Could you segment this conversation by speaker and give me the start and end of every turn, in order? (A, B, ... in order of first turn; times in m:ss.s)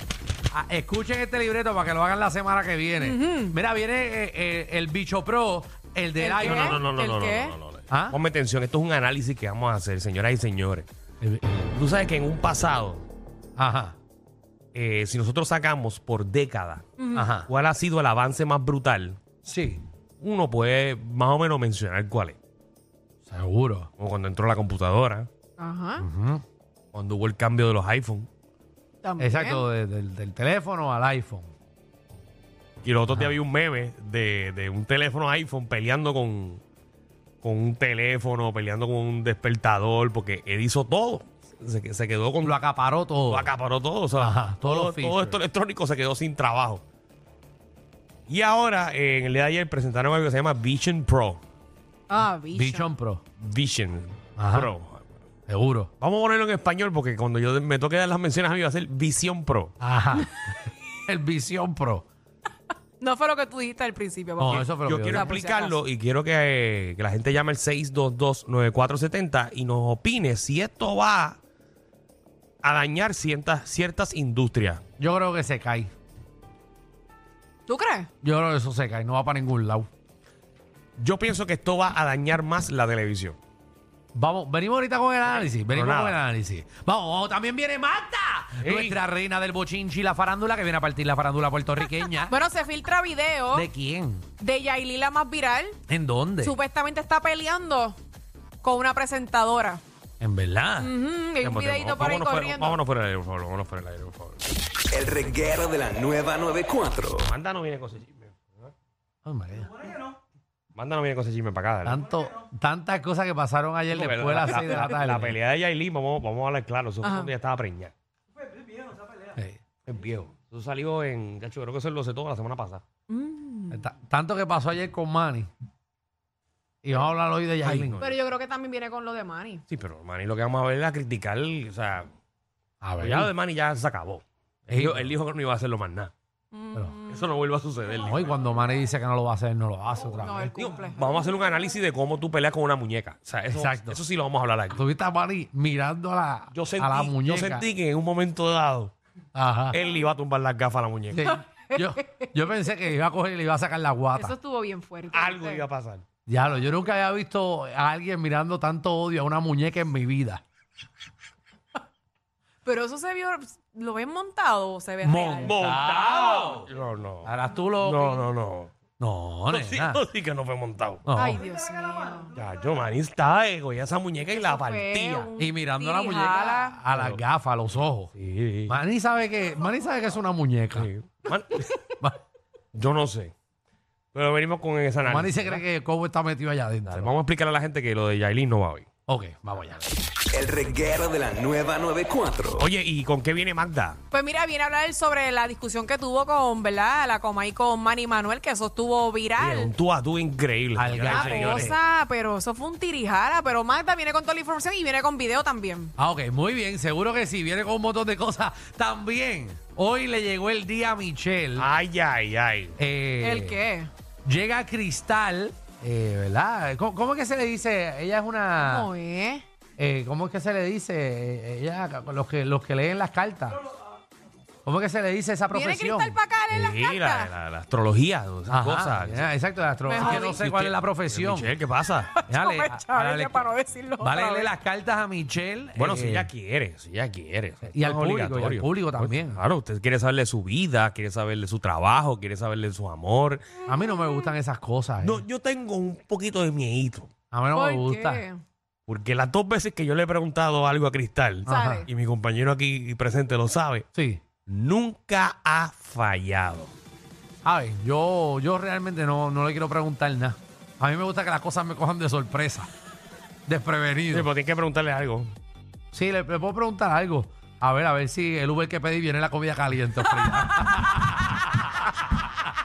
0:00.5-0:06.8 A
0:03.0-0:03.6 B
0:06.2-0:07.6 B
0:06.4-0:10.9 C
0:07.9-0:08.2 A
0:11.2-0:11.6 A
0:11.7-0:13.0 C
0:13.6-0:14.0 A
0:14.7-0:16.8 C
0:17.0-0:17.3 B
0:17.1-0:17.5 A
0:17.5-0:19.2 C
0:19.4-0:19.8 A
0:20.2-0:22.4 C
0:23.2-0:23.9 A
0:24.0-0:25.3 C
0:25.6-0:26.0 B
0:26.0-0:26.4 A
0:26.9-0:28.3 C
0:29.0-0:29.6 B
0:29.2-0:31.5 A
0:32.8-0:36.6 C
0:37.4-0:42.6 C
0:42.4-0:43.5 A
0:43.3-0:46.8 C
0:44.2-0:45.4 A
0:48.3-0:51.4 C
0:52.1-0:52.9 B
0:52.5-0:53.2 A
0:53.4-0:55.1 C
0:54.4-0:54.7 A
0:55.5-0:55.9 A
0:56.0-0:59.8 C
0:59.8-1:02.0 A
1:03.0-1:05.8 B
1:04.4-1:05.3 A
1:04.5-1:11.4 C
1:12.6-1:14.8 C
1:15.0-1:15.9 A
1:17.7-1:18.1 B
1:18.2-1:19.9 A
1:21.0-1:23.4 C
1:24.1-1:32.3 A
1:25.4-1:26.2 C
1:28.6-1:29.0 C
1:32.2-1:33.7 B
1:33.5-1:34.2 A
1:34.4-1:35.8 B
1:35.9-1:36.6 A
1:36.4-1:38.0 B
1:38.6-1:39.8 B
1:40.2-1:40.9 A
1:40.8-1:42.8 B
1:41.4-1:44.4 C
1:44.9-1:47.3 D
1:47.2-1:48.3 C
1:49.2-1:49.7 A
1:50.7-1:52.0 C
1:51.8-1:55.4 A
1:53.9-1:57.9 C
1:57.0-1:57.3 B
1:59.9-2:02.8 C
2:03.1-2:03.8 B
2:03.7-2:05.5 A
2:06.8-2:08.0 A
2:07.6-2:08.1 C
2:08.0-2:09.6 B
2:09.7-2:12.1 C
2:12.8-2:13.3 A
2:13.0-2:16.1 C
2:14.7-2:15.2 A
2:16.5-2:17.3 B
2:17.1-2:18.2 C
2:18.0-2:20.5 A
2:20.2-2:21.3 B
2:20.5-2:24.8 C
2:23.5-2:24.0 A
2:24.7-2:27.6 A
2:26.5-2:28.9 C
2:29.3-2:29.8 A
2:29.7-2:31.2 C
2:31.1-2:34.4 A
2:31.2-2:32.3 B
2:34.1-2:35.6 B
2:35.1-2:36.0 C
2:36.3-2:40.4 A
2:42.6-2:45.6 B
2:45.0-2:46.7 A
2:45.4-2:48.7 C
2:47.2-2:48.2 A
2:49.0-2:50.0 A
2:49.5-2:51.0 C
2:51.0-2:51.4 A
2:51.1-2:52.3 B
2:52.3-2:55.3 C
2:54.3-2:56.9 B
2:55.4-2:58.1 A
2:56.9-2:57.2 C
2:58.2-2:58.8 C
2:58.7-3:00.9 A
3:00.7-3:01.7 C
3:02.7-3:03.3 C
3:04.1-3:05.6 C
3:05.0-3:07.1 A
3:06.8-3:08.8 C
3:09.1-3:09.9 A
3:10.3-3:12.6 D
3:12.6-3:14.0 C
3:14.1-3:19.7 B
3:19.4-3:21.8 C
3:20.7-3:21.7 A
3:21.0-3:25.9 B
3:26.0-3:31.7 A
3:31.6-3:32.8 C
3:32.8-3:33.6 A
3:33.2-3:33.9 B
3:34.2-3:38.9 A
3:38.6-3:39.4 B
3:39.8-3:43.6 A
3:44.6-3:46.2 A
3:45.5-3:47.3 B
3:46.5-3:49.3 C
3:48.5-3:51.5 A
3:49.8-3:50.4 B
3:50.0-3:52.1 C
3:52.1-3:54.5 B
3:52.3-3:53.5 A
3:54.0-3:56.3 A
3:55.8-4:03.5 C
3:57.6-3:59.4 A
4:03.7-4:05.2 A
4:05.0-4:07.1 C
4:07.3-4:08.2 A
4:07.5-4:08.4 B
4:08.9-4:13.8 C
4:11.4-4:11.8 A
4:11.5-4:11.9 B
4:13.9-4:14.2 A
4:14.4-4:16.7 C
4:17.4-4:22.7 A
4:23.4-4:24.3 A
4:24.1-4:25.3 C
4:25.9-4:32.4 A
4:30.4-4:30.7 B